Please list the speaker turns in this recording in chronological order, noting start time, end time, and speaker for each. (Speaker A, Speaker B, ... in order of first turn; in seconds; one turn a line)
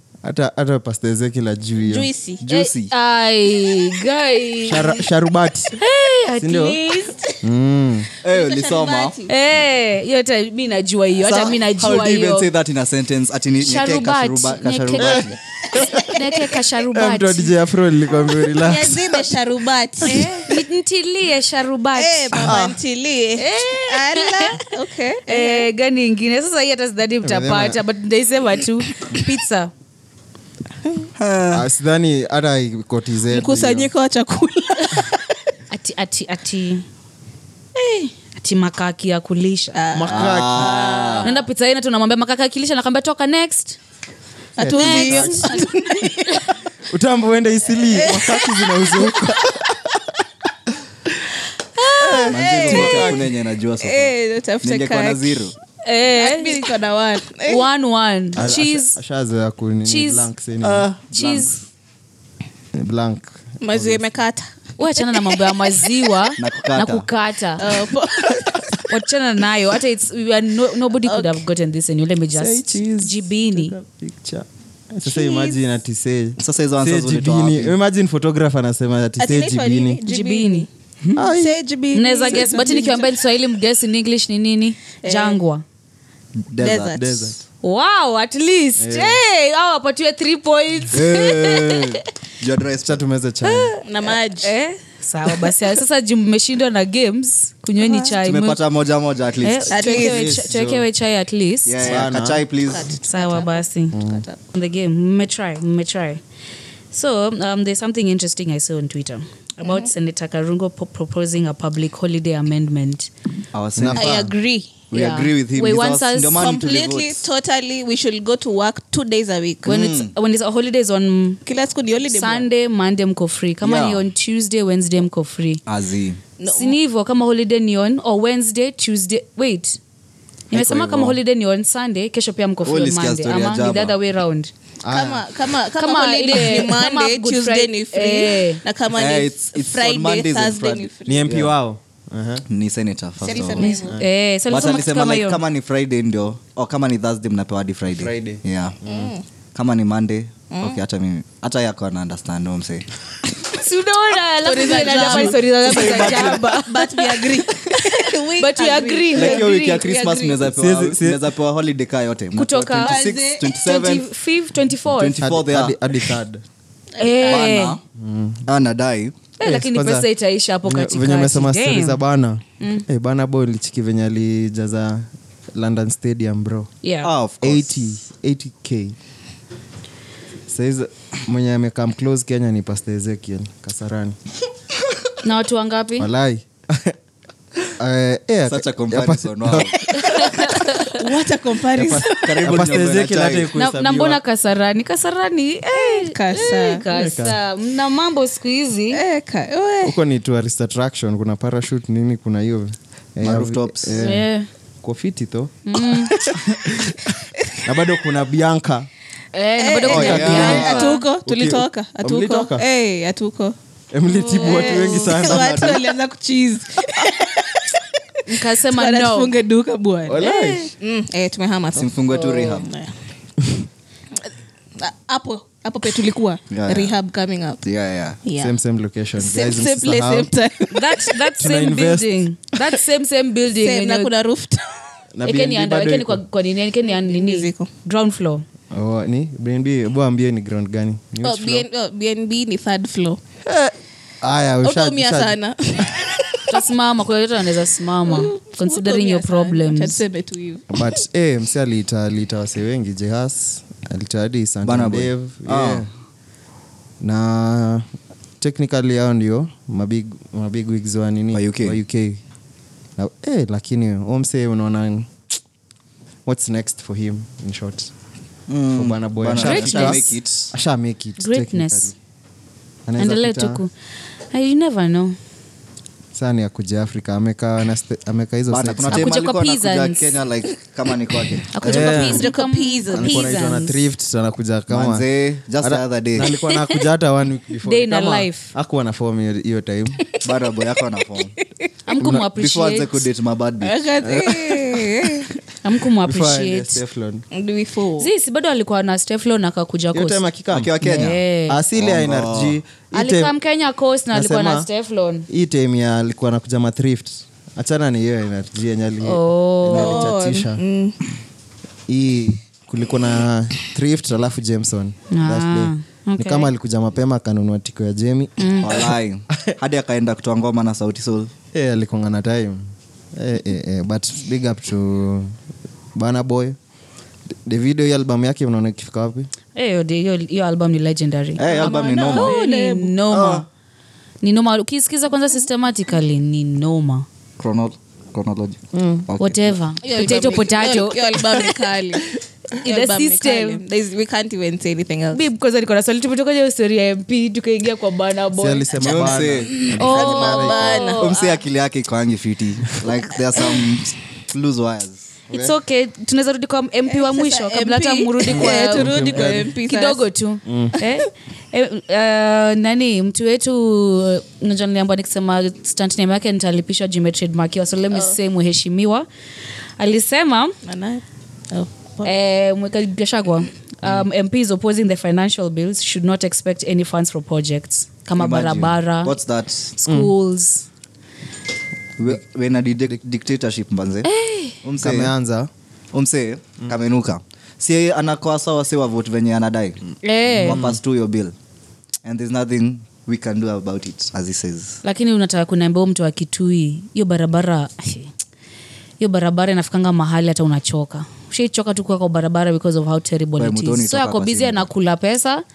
Speaker A: 0.2-2.1
Speaker B: 1.8-2.4
Speaker C: 2.4-2.9
Speaker D: 2.4-5.1
Speaker A: 4.7-5.8
Speaker D: 5.8-7.3
Speaker A: 6.4-6.8
Speaker A: 7.4-8.1
Speaker C: 8.2-9.2
Speaker B: 8.2-9.3
Speaker D: 9.3-12.5
Speaker C: 11.2-15.4
Speaker D: 13.6-17.6
Speaker A: 15.0-16.3
Speaker A: 16.9-19.4
Speaker B: 18.2-20.5
Speaker D: 20.0-22.6
Speaker B: 21.9-25.7
Speaker A: 22.4-22.8
Speaker D: 23.4-24.6
Speaker D: 25.2-29.7
Speaker A: 27.2-27.8
Speaker C: 31.2-31.6
Speaker A: 31.5-33.9
Speaker B: 33.3-35.3
Speaker D: 35.7-36.9
Speaker D: 37.8-39.8
Speaker B: 39.7-41.4
Speaker A: 39.9-40.9
Speaker C: 40.1-41.3
Speaker D: 41.2-43.8
Speaker B: 44.6-46.5
Speaker A: 44.6-45.5
Speaker D: 44.7-45.5
Speaker A: 46.9-50.1
Speaker B: 47.9-48.9
Speaker D: 51.8-52.2
Speaker A: 52.0-53.3
Speaker C: 52.2-55.5
Speaker B: 52.3-53.3
Speaker B: 53.8-55.5
Speaker D: 55.8-56.7
Speaker B: 56.2-57.6
Speaker D: 57.5-59.0
Speaker A: 58.3-60.9
Speaker D: 59.9-60.3
Speaker C: 60.6-61.6
Speaker D: 61.1-61.5
Speaker A: 62.8-64.0
Speaker B: 63.6-65.4
Speaker D: 64.8-67.7
Speaker C: 66.4-67.1
Speaker B: 67.6-68.8
Speaker D: 68.9-73.8
Speaker B: 71.0-71.4
Speaker A: 72.3-80.0
Speaker B: 75.1-75.6
Speaker C: 76.4-77.8
Speaker B: 79.2-80.7
Speaker D: 80.1-81.3
Speaker A: 81.2-81.6
Speaker B: 81.3-83.1
Speaker D: 81.9-85.6
Speaker B: 85.0-85.4
Speaker C: 86.4-87.1
Speaker B: 86.6-87.3
Speaker A: 86.6-87.4
Speaker D: 87.6-92.0
Speaker A: 88.8-89.2
Speaker C: 90.9-93.0
Speaker A: 92.8-93.7
Speaker B: 93.8-94.8
Speaker D: 94.4-98.6
Speaker B: 97.8-98.1
Speaker C: 98.2-100.0
Speaker D: 99.4-101.8
Speaker B: 99.7-100.4
Speaker A: 99.9-100.8
Speaker C: 101.7-102.9
Speaker A: 101.8-102.5
Speaker B: 102.6-104.4
Speaker D: 103.0-104.0
Speaker A: 103.9-104.2
Speaker D: 104.5-106.2
Speaker D: 106.9-113.1
Speaker C: 113.5-114.2
Speaker A: 113.8-114.3
Speaker B: 114.0-114.7
Speaker D: 114.7-116.4
Speaker C: 114.9-117.3
Speaker B: 116.3-119.8
Speaker C: 119.7-120.1
Speaker D: 119.7-121.4
Speaker B: 121.5-122.5
Speaker D: 122.1-125.6
Speaker C: 123.6-124.0
Speaker C: 125.7-126.2
Speaker B: 126.4-126.8
Speaker D: 126.5-129.8
Speaker D: 130.5-134.5
Speaker A: 130.6-131.1
Speaker C: 130.6-131.1
Speaker C: 132.6-134.0
Speaker A: 134.8-135.2
Speaker B: 134.9-141.3
Speaker D: 135.8-138.6
Speaker C: 138.9-141.5
Speaker A: 141.1-142.4
Speaker C: 142.5-143.7
Speaker B: 143.2-144.0
Speaker A: 143.4-144.1
Speaker D: 143.6-145.4
Speaker C: 144.5-148.8
Speaker A: 147.9-149.1
Speaker B: 148.9-149.2
Speaker C: 149.6-152.9
Speaker B: 150.5-150.8
Speaker D: 153.6-159.8
Speaker B: 154.4-160.5
Speaker C: 154.9-156.5
Speaker C: 159.1-164.1
Speaker A: 160.4-161.2
Speaker D: 162.4-165.2
Speaker B: 162.8-163.5
Speaker C: 164.9-165.8
Speaker A: 165.2-166.4
Speaker B: 167.0-167.6
Speaker D: 167.0-167.8
Speaker C: 167.2-167.8
Speaker A: 167.9-168.4
Speaker C: 168.5-169.1
Speaker D: 169.4-172.0
Speaker A: 169.4-170.1
Speaker A: 170.6-176.7
Speaker D: 172.6-172.8
Speaker D: 176.8-177.1
Speaker C: 177.0-177.9
Speaker A: 177.4-178.9
Speaker A: 180.5-184.2
Speaker D: 185.2-186.1
Speaker A: 186.0-187.0
Speaker A: 187.7-190.4
Speaker C: 188.5-189.8
Speaker D: 190.0-191.0
Speaker B: 190.8-192.3
Speaker A: 191.7-194.2
Speaker C: 192.1-193.5
Speaker D: 193.6-199.0
Speaker B: 195.8-196.8
Speaker A: 196.9-197.4
Speaker B: 198.9-200.0
Speaker A: 199.8-204.3
Speaker C: 203.2-204.0
Speaker D: 203.9-204.5
Speaker A: 204.8-208.9
Speaker D: 205.7-206.2
Speaker D: 209.3-211.1
Speaker B: 209.6-213.6
Speaker A: 209.8-212.7
Speaker C: 209.9-210.8
Speaker A: 213.9-215.9
Speaker B: 214.2-222.9
Speaker D: 214.2-215.1
Speaker C: 215.3-215.8
Speaker D: 218.2-219.3
Speaker A: 220.1-220.7
Speaker D: 220.2-220.7
Speaker C: 221.8-222.7
Speaker B: 224.8-227.6
Speaker C: 226.5-227.0
Speaker C: 227.6-228.2
Speaker B: 228.2-228.6
Speaker A: 228.4-230.3
Speaker B: 229.2-230.9
Speaker D: 230.7-234.1
Speaker A: 231.4-232.1
Speaker B: 233.5-234.9
Speaker A: 235.1-236.2
Speaker D: 235.2-238.4
Speaker B: 236.9-237.7
Speaker A: 238.7-241.7
Speaker B: 241.2-243.2
Speaker A: 243.4-246.1
Speaker B: 244.6-246.6
Speaker D: 246.5-250.0
Speaker B: 248.0-250.9
Speaker A: 250.7-255.9
Speaker C: 254.6-255.9
Speaker A: 257.0-257.9
Speaker A: 258.4-262.2
Speaker C: 261.3-261.8
Speaker A: 263.0-265.1
Speaker A: 266.2-267.9
Speaker C: 268.5-270.5
Speaker A: 268.7-271.9
Speaker D: 269.3-270.2
Speaker D: 271.2-271.9
Speaker A: 272.9-273.6
Speaker D: 273.0-273.7
Speaker D: 274.3-275.2
Speaker A: 276.1-279.1
Speaker C: 278.5-281.9
Speaker D: 278.9-280.1
Speaker D: 281.5-283.9
Speaker A: 281.6-282.3
Speaker B: 281.6-283.3
Speaker A: 282.9-285.1
Speaker C: 284.7-286.3
Speaker A: 285.6-290.1
Speaker D: 286.4-286.8
Speaker D: 287.6-288.5
Speaker C: 290.2-291.4
Speaker D: 291.9-293.1
Speaker A: 292.0-292.2
Speaker C: 292.1-293.9
Speaker B: 293.6-295.4
Speaker A: 294.0-295.3
Speaker D: 295.6-296.8
Speaker A: 296.0-297.2
Speaker B: 297.3-298.1
Speaker D: 298.0-300.2
Speaker A: 299.9-303.4
Speaker C: 300.5-301.2
Speaker D: 300.8-301.6
Speaker C: 301.8-302.6
Speaker D: 302.9-305.3
Speaker A: 304.1-304.7
Speaker A: 305.3-310.6
Speaker D: 309.0-310.1
Speaker B: 309.7-311.0
Speaker A: 311.9-318.9
Speaker D: 315.1-316.5
Speaker D: 318.4-318.7
Speaker C: 318.6-321.3
Speaker A: 321.5-322.6
Speaker A: 323.1-325.3
Speaker A: 325.9-326.6
Speaker A: 327.4-329.3
Speaker D: 329.6-333.5
Speaker C: 331.4-332.4
Speaker B: 331.4-333.0
Speaker C: 333.1-333.5
Speaker D: 334.2-337.1
Speaker C: 337.4-339.6
Speaker A: 338.7-339.1
Speaker D: 339.1-341.2
Speaker B: 339.8-345.2
Speaker D: 342.6-343.6
Speaker D: 345.1-348.9
Speaker A: 348.4-350.7
Speaker C: 348.8-349.7
Speaker B: 349.5-351.1
Speaker D: 349.8-351.4
Speaker C: 350.8-355.1
Speaker D: 355.3-369.1
Speaker B: 356.9-360.1
Speaker A: 358.3-359.5
Speaker A: 360.4-360.8
Speaker D: 369.8-370.6
Speaker B: 370.6-372.1
Speaker D: 372.0-379.2
Speaker C: 378.1-379.7
Speaker D: 379.8-380.7
Speaker A: 379.9-380.1
Speaker C: 382.0-384.1
Speaker D: 384.0-384.6
Speaker C: 384.6-385.1
Speaker A: 384.8-385.5
Speaker C: 385.9-391.3
Speaker D: 390.0-390.6
Speaker A: 390.4-390.8
Speaker C: 392.0-394.8
Speaker D: 394.8-398.1
Speaker D: 399.0-405.4
Speaker C: 403.4-404.7